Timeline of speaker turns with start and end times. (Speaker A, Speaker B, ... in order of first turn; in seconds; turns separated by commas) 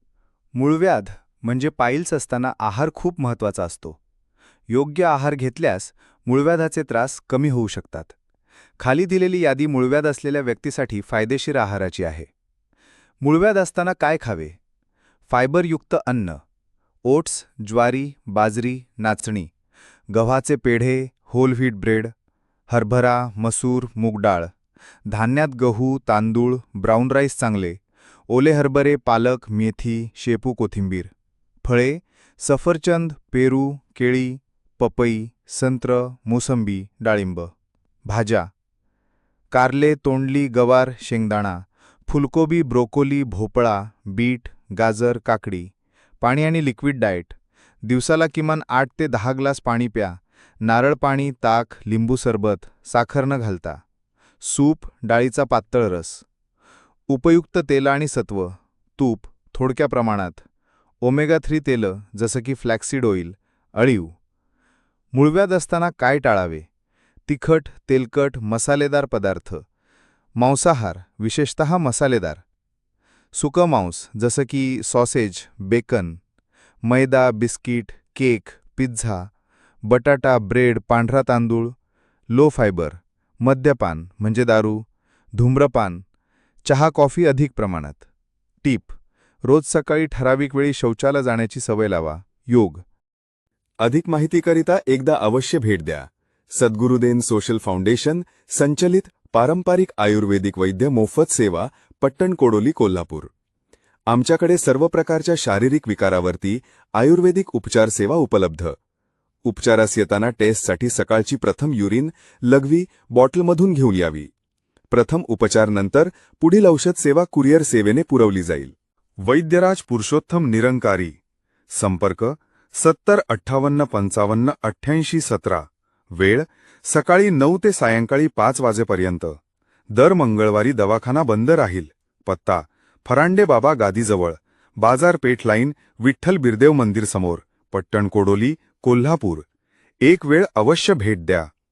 Speaker A: 0.5-4.0, Speaker A: 4.7-8.1, Speaker A: 8.8-12.3, Speaker A: 13.2-14.6, Speaker A: 15.3-16.4, Speaker A: 17.1-19.5, Speaker A: 20.1-22.1, Speaker A: 22.7-24.5, Speaker A: 25.1-31.1, Speaker A: 31.6-37.5, Speaker A: 38.0-38.5, Speaker A: 39.5-53.8, Speaker A: 54.4-56.2, Speaker A: 57.1-60.4, Speaker A: 61.0-64.1, Speaker A: 65.1-66.7, Speaker A: 67.3-69.6, Speaker A: 70.4-72.4, Speaker A: 73.3-76.2, Speaker A: 76.8-79.3, Speaker A: 79.8-81.7, Speaker A: 82.3-86.0, Speaker A: 86.6-88.0, Speaker A: 88.6-92.8, Speaker B: 93.8-103.3, Speaker B: 104.1-108.7, Speaker B: 109.5-114.3, Speaker B: 114.9-118.7, Speaker B: 119.3-121.1, Speaker A: 119.4-120.9, Speaker B: 121.7-122.3, Speaker A: 121.9-122.2, Speaker B: 122.8-125.5, Speaker A: 123.0-125.5, Speaker A: 126.9-129.3, Speaker B: 126.9-129.3, Speaker B: 130.0-134.3, Speaker A: 130.0-134.3, Speaker B: 134.8-139.4, Speaker A: 134.9-139.4, Speaker A: 140.1-141.4, Speaker B: 140.1-141.4